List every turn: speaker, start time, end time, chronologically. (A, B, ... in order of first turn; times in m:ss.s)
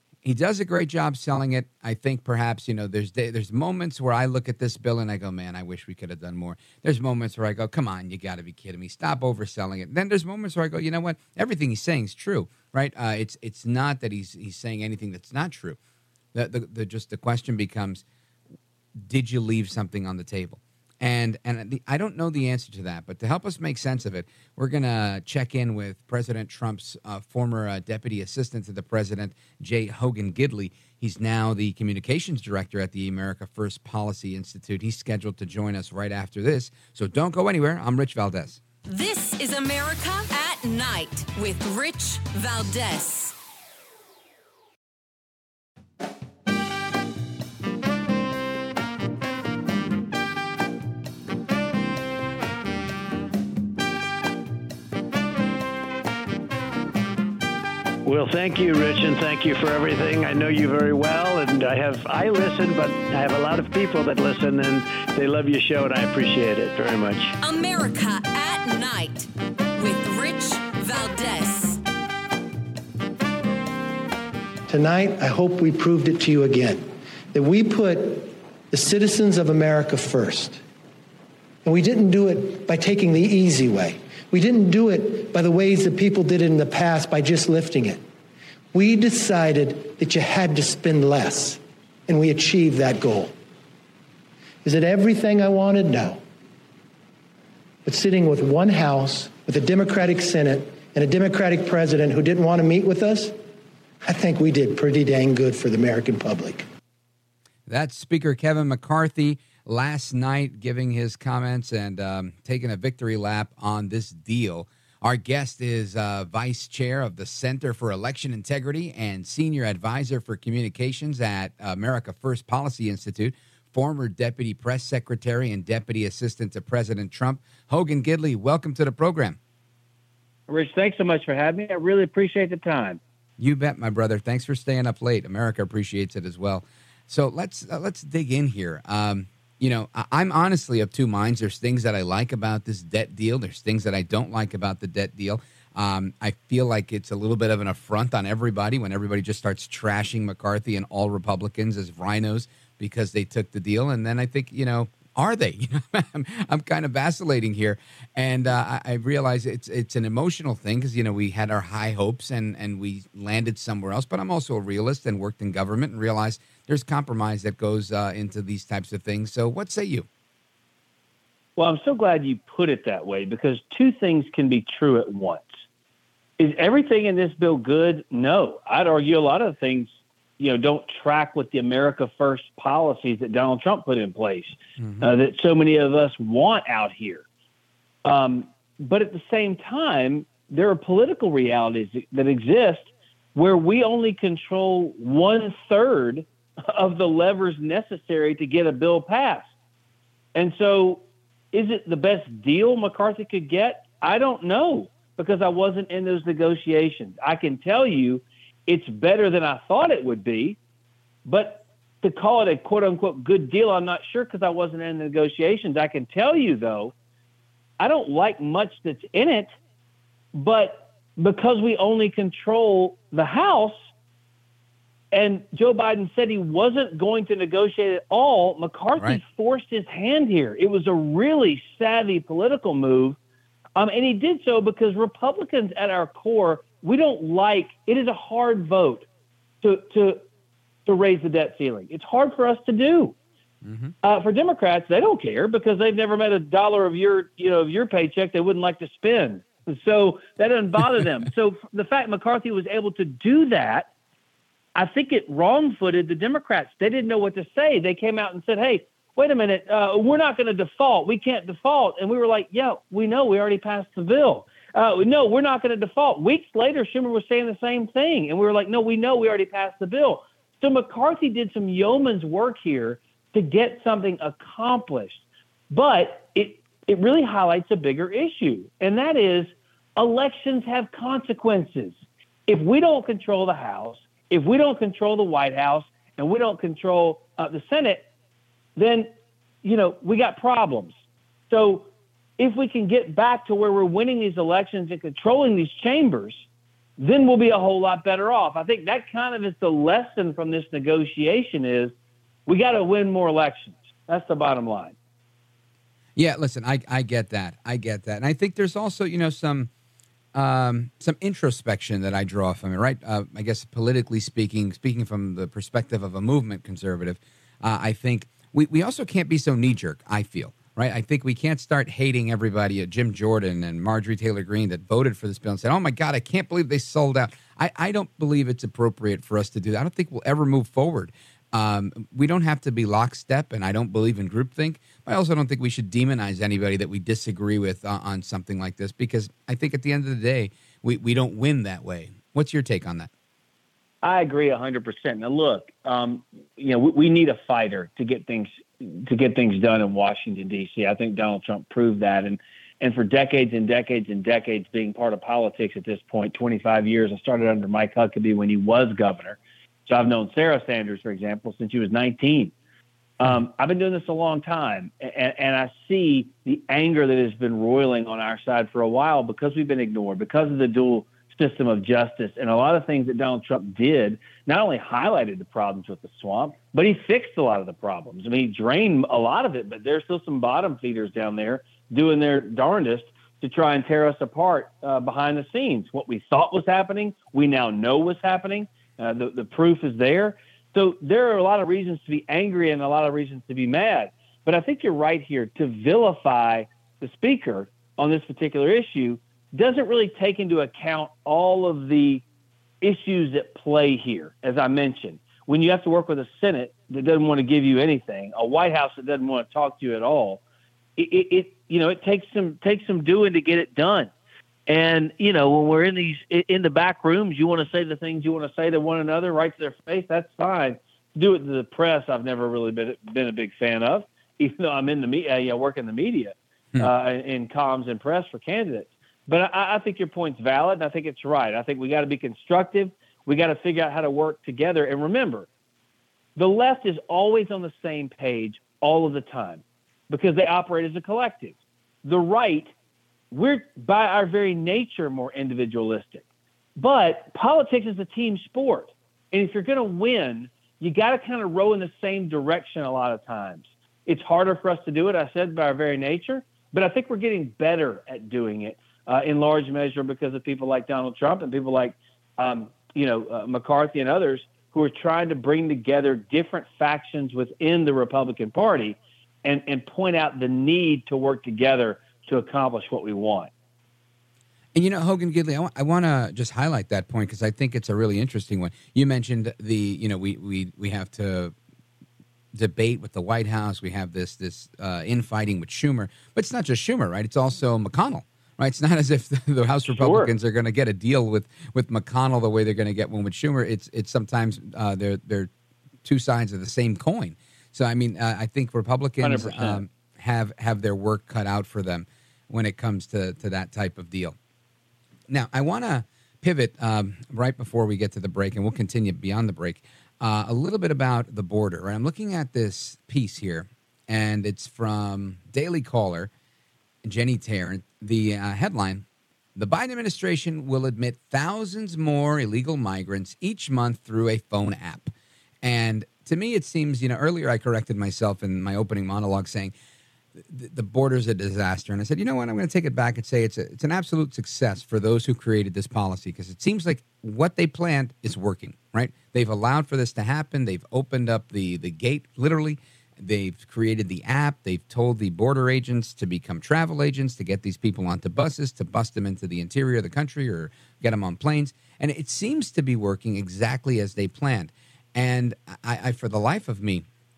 0:00.2-0:15.8 A
0:16.3-0:18.0 A
0:19.0-0:38.6 A
0:38.9-0:43.4 B
0:58.0-1:07.4 C
1:07.4-1:11.8 B
1:14.7-1:20.6 D
1:21.6-1:28.0 D
1:28.7-1:33.3 D
1:34.6-1:36.2 D
1:37.8-1:43.4 D
1:44.0-1:46.6 D
1:47.7-2:09.4 A
2:10.5-2:13.0 E
2:13.4-2:50.1 A
2:51.6-2:55.5 E
2:56.4-3:07.2 E
3:04.8-3:05.0 A
3:08.0-3:19.5 E
3:20.4-3:30.6 E
3:31.3-3:36.9 E
3:37.8-3:39.5 E
3:40.3-3:43.9 E
3:45.1-3:53.2 E
3:53.8-3:59.1 E
3:59.6-4:00.2 E
4:00.9-4:03.2 E
4:03.6-4:03.9 A
4:04.0-4:13.9 E
4:14.8-4:48.1 E
4:48.8-4:51.0 E
4:51.5-4:56.5 E
4:57.0-5:01.9 E
5:02.5-5:05.0 E
5:06.2-5:09.7 A
5:10.3-5:43.1 A
5:44.0-6:02.5 E
6:03.2-6:42.2 E
6:42.8-6:50.4 E
6:51.0-6:54.1 E
6:54.7-7:15.5 E
7:16.4-7:22.7 E
7:23.3-7:26.2 E
7:26.8-7:53.5 E
7:54.7-8:01.6 A
8:02.5-8:15.5 A
8:09.9-8:10.3 E
8:16.0-8:24.4 A
8:19.2-8:19.8 E
8:25.3-8:36.3 A
8:37.0-8:49.7 A
8:50.4-9:17.1 A